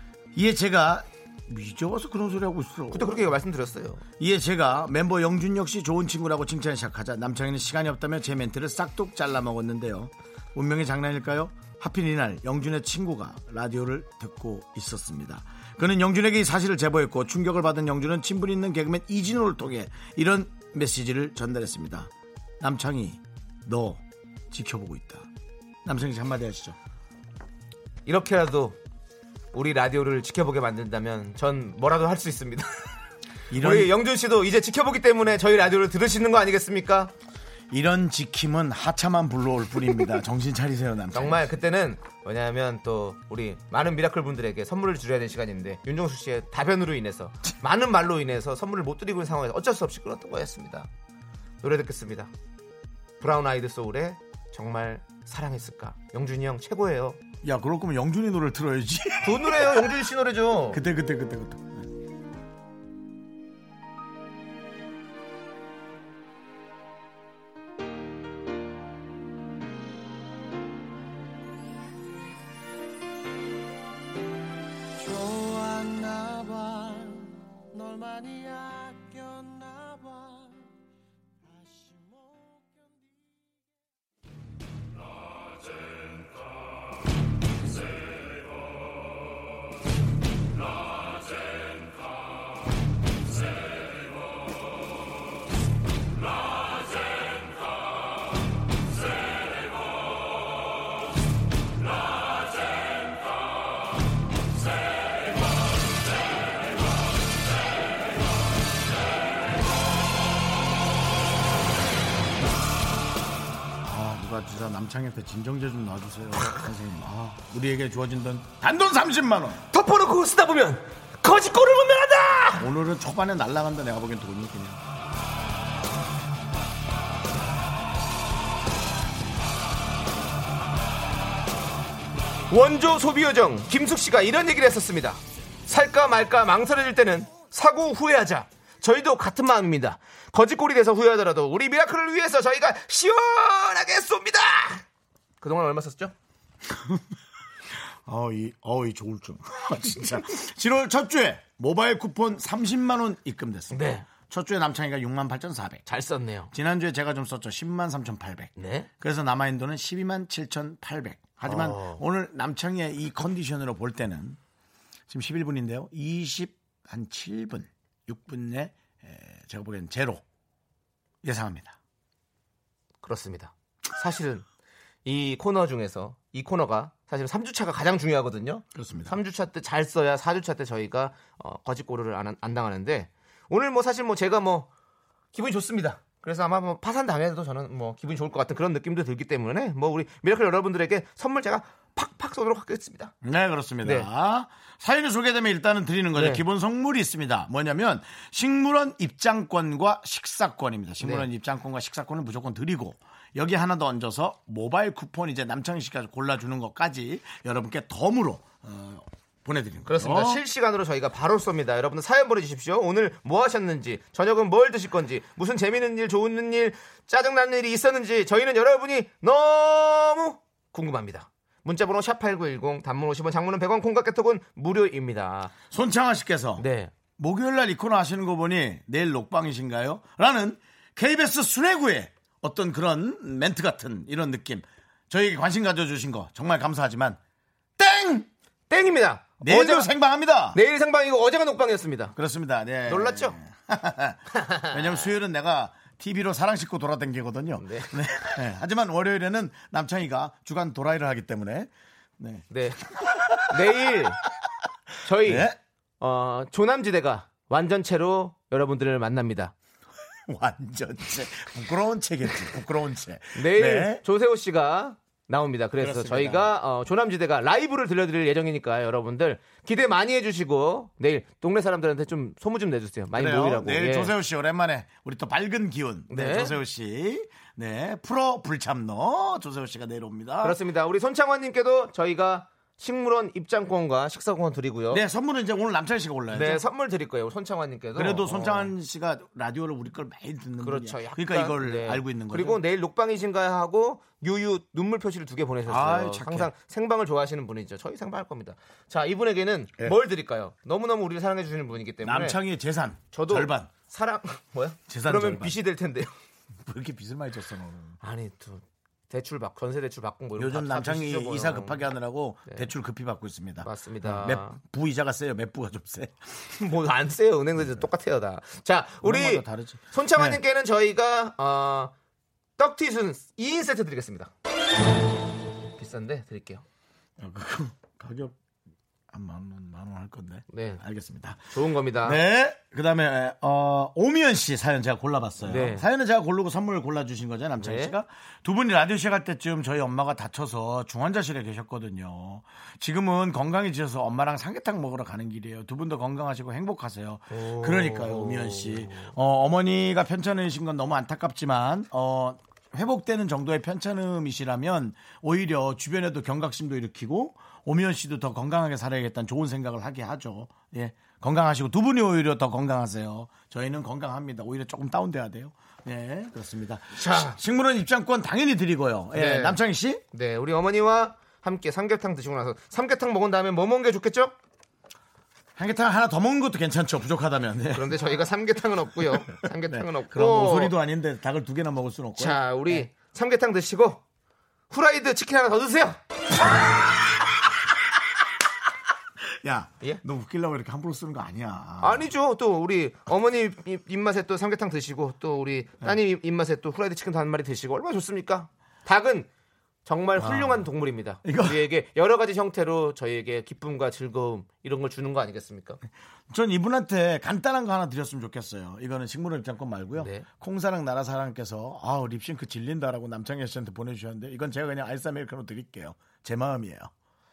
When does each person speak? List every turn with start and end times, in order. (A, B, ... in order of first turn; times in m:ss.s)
0:00.3-0:03.3 A
0:02.9-0:04.0 B
0:04.2-0:25.3 A
0:25.8-0:26.8 A
0:28.0-0:28.8 B
0:29.5-0:32.7 B
0:33.5-0:33.9 A
0:33.6-0:37.1 B
0:37.7-0:41.5 A
0:41.1-0:50.9 B
0:51.6-0:52.3 B
0:53.2-0:57.2 B
0:57.4-1:00.0 A
0:59.2-1:00.8 B
1:00.7-1:01.9 A
1:15.0-1:20.7 C
1:21.4-1:23.3 C
1:53.8-1:59.6 A
1:59.7-2:02.7 B
2:02.6-2:04.8 A
2:12.5-2:24.8 B
2:25.4-2:26.1 B
2:26.7-2:27.0 A
2:28.0-2:35.8 A
2:33.7-2:34.1 B
2:35.9-2:36.5 B
2:36.5-2:44.4 A
2:38.6-2:38.9 B
2:41.4-2:42.0 B
2:45.1-2:50.2 A
2:51.2-2:51.8 A
2:53.0-2:54.4 B
2:55.0-3:04.7 B
2:58.7-2:59.2 A
3:05.3-3:13.1 B
3:13.2-3:30.4 A
3:16.2-3:16.4 B
3:21.0-3:21.2 B
3:29.9-3:45.5 B
3:45.7-3:46.6 A
3:46.6-3:46.9 B
3:47.2-3:57.2 A
3:57.8-3:58.3 A
3:58.7-3:59.9 B
3:59.4-4:00.6 A
4:00.5-4:02.1 B
4:02.2-4:14.0 A
4:02.8-4:03.4 B
4:04.3-4:05.1 B
4:07.6-4:08.0 B
4:12.5-4:14.2 B
4:15.0-4:19.5 B
4:15.2-4:15.6 A
4:20.3-4:24.0 A
4:23.3-4:34.1 B
4:25.8-4:26.5 A
4:33.1-4:40.6 A
4:36.1-4:36.6 B
4:40.4-4:45.0 B
4:44.9-4:46.6 A
4:46.3-4:48.7 B
4:48.0-4:52.6 A
4:50.6-5:02.4 B
4:55.6-4:56.5 A
5:02.0-5:03.7 A
5:03.1-5:06.1 B
5:04.9-5:05.6 A
5:06.6-5:08.0 A
5:08.0-5:11.9 B
5:10.4-5:16.3 A
5:13.6-5:14.6 B
5:16.6-5:21.9 B
5:19.0-5:20.4 A
5:22.6-5:24.3 B
5:25.8-5:26.6 B
5:27.2-5:28.4 A
5:29.1-5:31.5 A
5:30.5-5:30.8 B
5:31.5-5:32.2 B
5:32.0-6:10.0 A
5:35.4-5:35.8 B
5:37.6-5:37.9 B
5:47.3-5:49.1 B
6:07.0-6:07.4 B
6:09.1-6:09.6 B
6:10.1-6:14.3 B
6:15.6-6:18.0 A
6:17.7-6:20.7 B
6:19.3-6:22.8 A
6:22.2-6:24.0 B
6:24.7-6:26.0 B
6:26.5-6:27.1 A
6:29.2-6:32.1 A
6:31.8-6:39.3 B
6:39.8-6:45.8 B
6:40.2-6:40.7 A
6:41.2-6:41.6 A
6:46.3-6:56.9 A
6:50.0-6:50.3 B